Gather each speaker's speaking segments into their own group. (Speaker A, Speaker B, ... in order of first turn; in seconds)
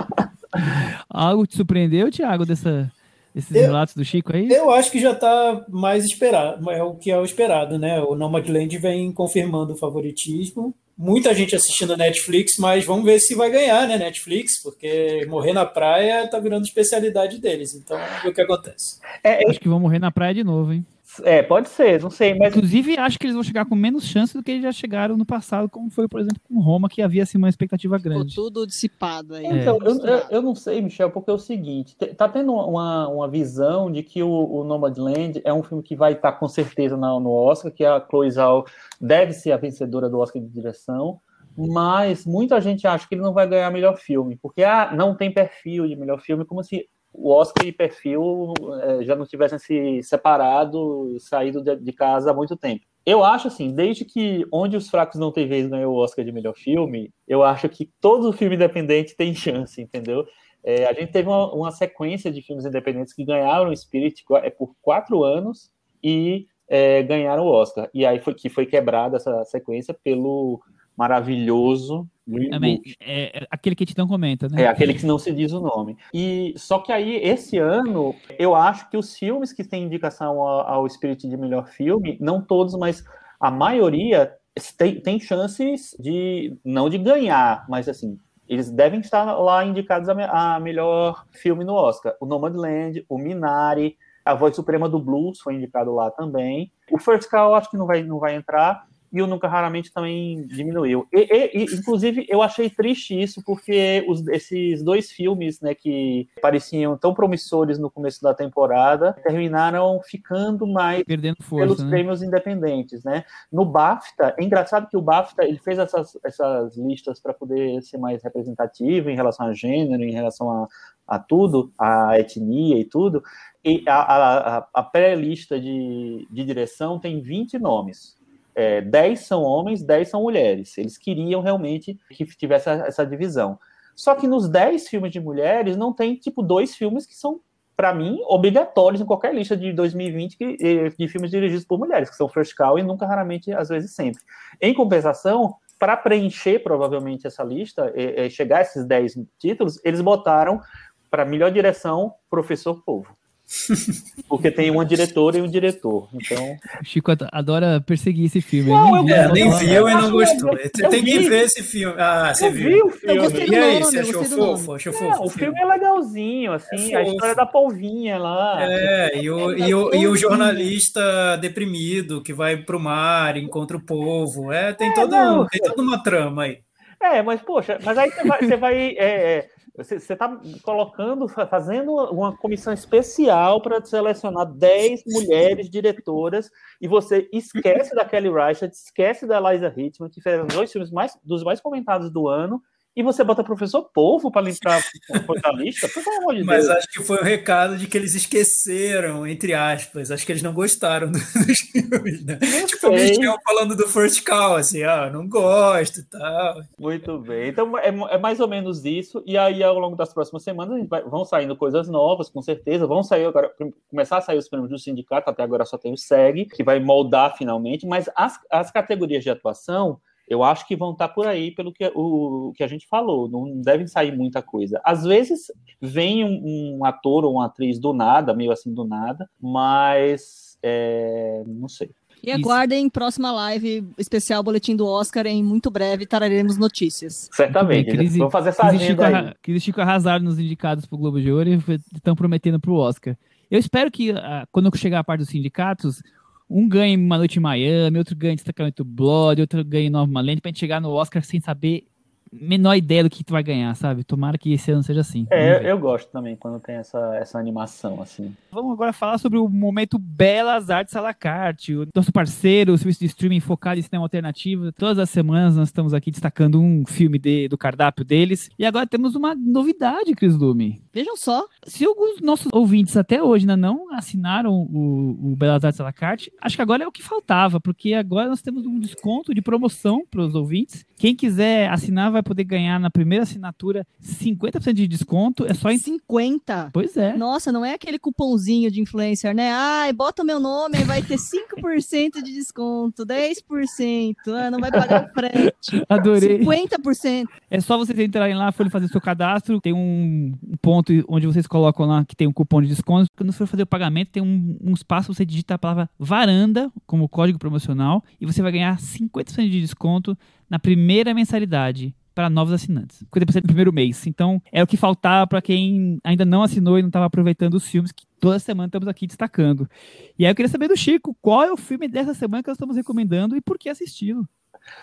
Speaker A: 0.6-4.6, 19.4-20.9, 22.5-28.4, 29.5-29.8, 72.5-74.7, 111.1-112.0, 156.8-159.9, 232.3-232.6, 237.5-255.7, 258.5-270.8, 271.6-285.8, 286.7-287.2, 295.8-296.5, 297.5-324.3
Speaker B: 4.5-19.0, 159.0-165.6, 166.7-167.4, 168.6-176.6, 196.4-206.7
Speaker C: 19.2-19.6, 21.1-22.6, 29.4-72.9, 74.6-153.2, 154.3-156.6, 158.7-161.5, 162.4-163.7, 164.9-168.9, 170.3-170.7, 174.8-175.8, 177.0-196.8, 202.4-203.4, 206.8-231.9, 237.3-239.3, 255.3-258.4
Speaker D: 28.1-30.3, 160.1-160.9, 163.1-164.7, 169.4-170.3, 232.2-237.3, 270.9-271.5, 285.7-297.3